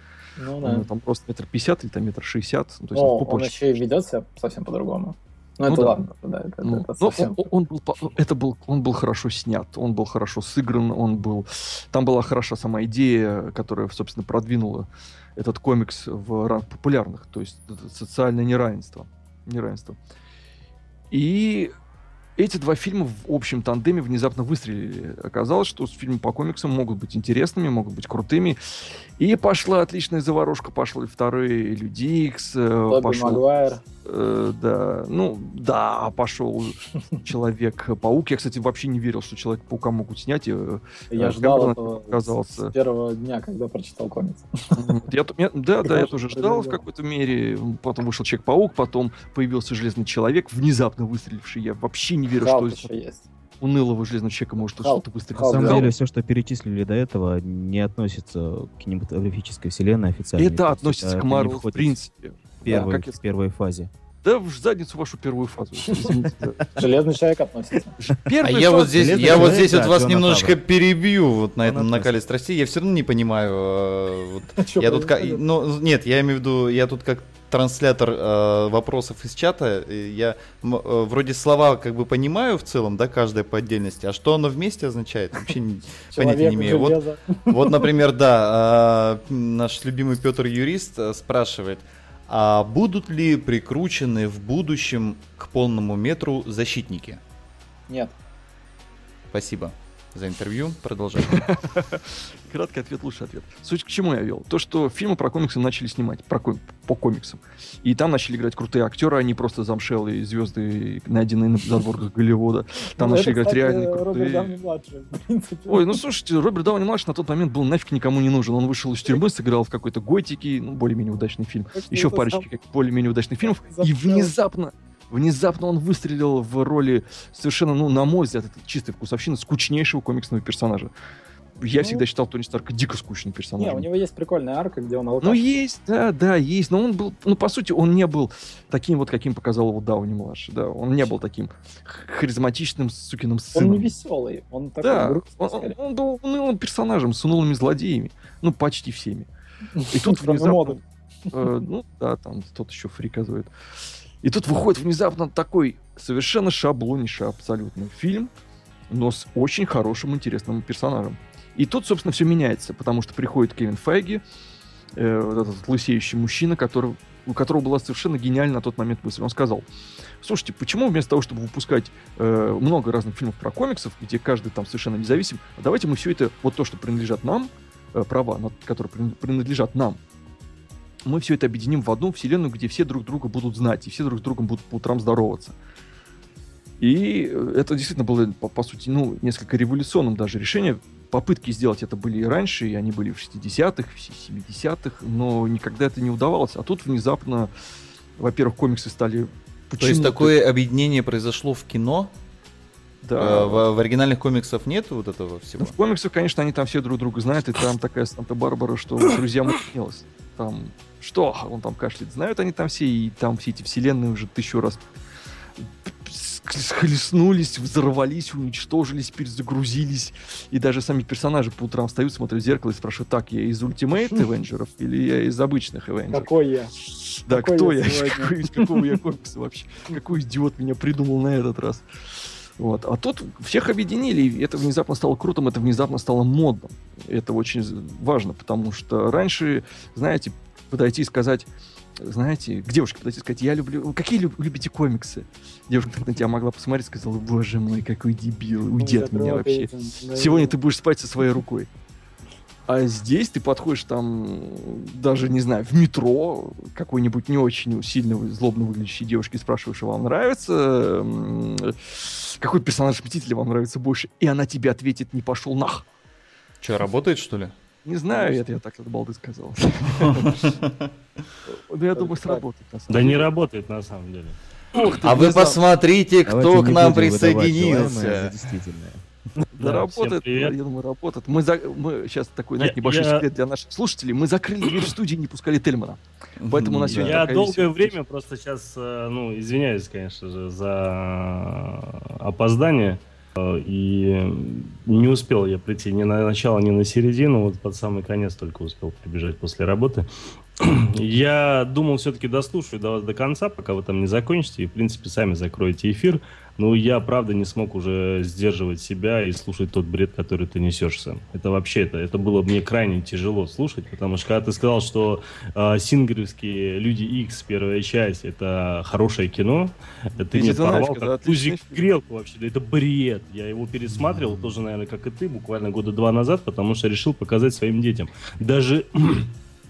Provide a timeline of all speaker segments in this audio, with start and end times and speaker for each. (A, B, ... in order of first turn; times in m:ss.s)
0:00.4-0:00.9 A
0:00.6-0:03.7 B
0:02.9-0:07.4 A
0:05.7-0:06.1 B
0:06.6-0:20.0 B
0:21.1-0:21.7 B
0:22.4-0:28.6 B
0:29.2-0:33.4 B
0:32.9-0:33.8 A
0:34.0-0:42.7 B
0:41.1-0:44.8 A
0:44.8-0:52.9 B
0:45.8-0:46.8 A
0:52.4-0:53.2 A
0:53.6-0:55.9 B
0:54.8-0:55.9 A
0:55.4-1:02.0 C
1:00.4-1:03.2 B
1:02.6-1:03.9 C
1:02.7-1:02.9 A
1:04.2-1:06.8 B
1:06.8-1:07.9 A
1:08.0-1:09.7 B
1:08.4-1:27.0 D
1:08.9-1:10.6 C
1:11.6-1:12.1 C
1:14.6-1:15.4 A
1:26.1-1:27.9 A
1:27.5-1:37.2 D
1:37.9-1:38.1 A
1:39.3-1:41.4 D
1:41.3-1:54.6 B
1:53.0-1:56.0 A
1:55.7-2:10.9 B
2:01.7-2:02.5 A
2:03.4-2:04.3 A
2:11.6-2:13.9 B
2:11.8-2:12.0 A
2:13.6-2:15.6 A
2:15.2-2:23.9 B
2:23.5-2:25.8 A
2:24.8-2:29.3 B
2:29.8-2:30.8 A
2:29.9-2:30.8 B
2:31.3-2:33.5 B
2:34.2-2:38.3 B
2:38.9-2:44.2 B
2:45.0-2:49.7 B
2:50.2-3:00.0 B
3:01.0-3:05.6 B
3:06.8-3:17.5 B
3:18.2-3:20.3 B
3:19.8-3:22.1 D
3:23.0-3:23.6 B
3:23.2-3:25.7 D
3:25.6-3:34.8 B
3:35.6-3:51.9 B
3:46.1-3:46.7 A
3:47.3-3:48.8 A
3:52.6-4:11.7 B
4:08.8-4:10.5 A
4:12.7-4:25.8 B
4:26.6-4:27.6 D
4:27.8-4:30.5 B
4:28.1-4:28.5 A
4:30.0-4:30.7 D
4:31.5-4:33.3 B
4:32.0-4:32.4 A
4:32.9-4:34.9 E
4:34.8-4:35.6 B
4:35.0-4:38.3 D
4:36.3-4:39.0 C
4:39.6-4:48.0 B
4:39.6-4:40.6 E
4:42.6-4:43.2 E
4:46.4-4:47.3 D
4:46.9-5:00.1 E
5:00.6-5:29.3 E
5:20.3-5:21.9 B